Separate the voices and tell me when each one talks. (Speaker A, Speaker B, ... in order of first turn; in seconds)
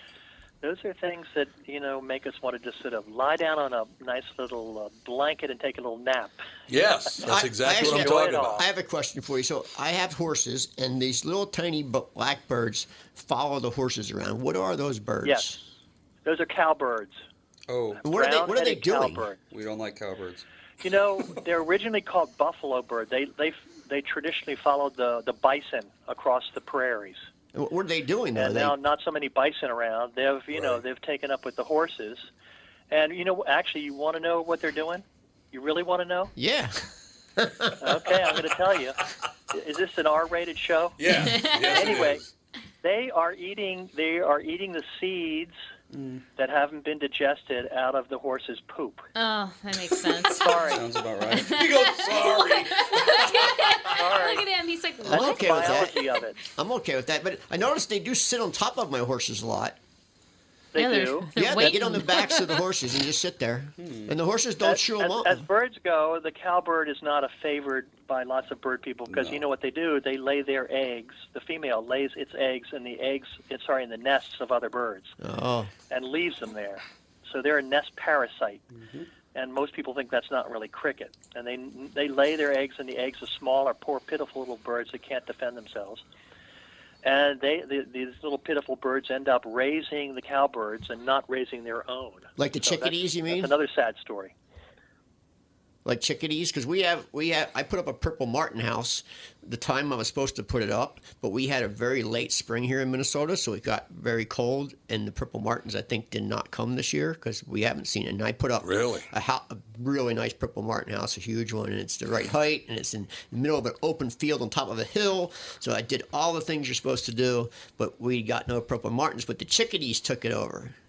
Speaker A: 0.6-6.4, 7.7-8.6, 15.2-15.5, 16.2-17.2, 18.0-19.4, 20.8-27.2, 28.3-32.3, 32.9-36.3, 37.8-39.0, 39.5-41.0, 41.7-42.2, 42.8-45.5, 46.4-49.0, 50.4-50.8, 53.9-54.5, 55.0-56.4, 60.7-61.3, 64.6-75.1, 75.9-78.6, 79.3-86.0, 87.0-94.3
Speaker B: 6.7-8.6, 30.5-30.8, 41.0-42.3, 51.5-53.8, 108.6-109.1
Speaker C: 7.2-15.6, 18.0-19.2, 27.5-28.8, 36.4-36.9, 37.4-37.8, 55.0-56.0, 56.5-59.8, 61.3-65.4, 75.2-75.7, 92.4-93.5, 95.8-120.7
Speaker D: 17.7-18.0, 19.5-20.4, 45.9-46.2, 50.7-51.6, 63.8-64.2, 69.1-69.4, 78.7-79.1
Speaker E: 41.2-41.8, 49.1-50.7, 51.3-55.9, 60.8-62.6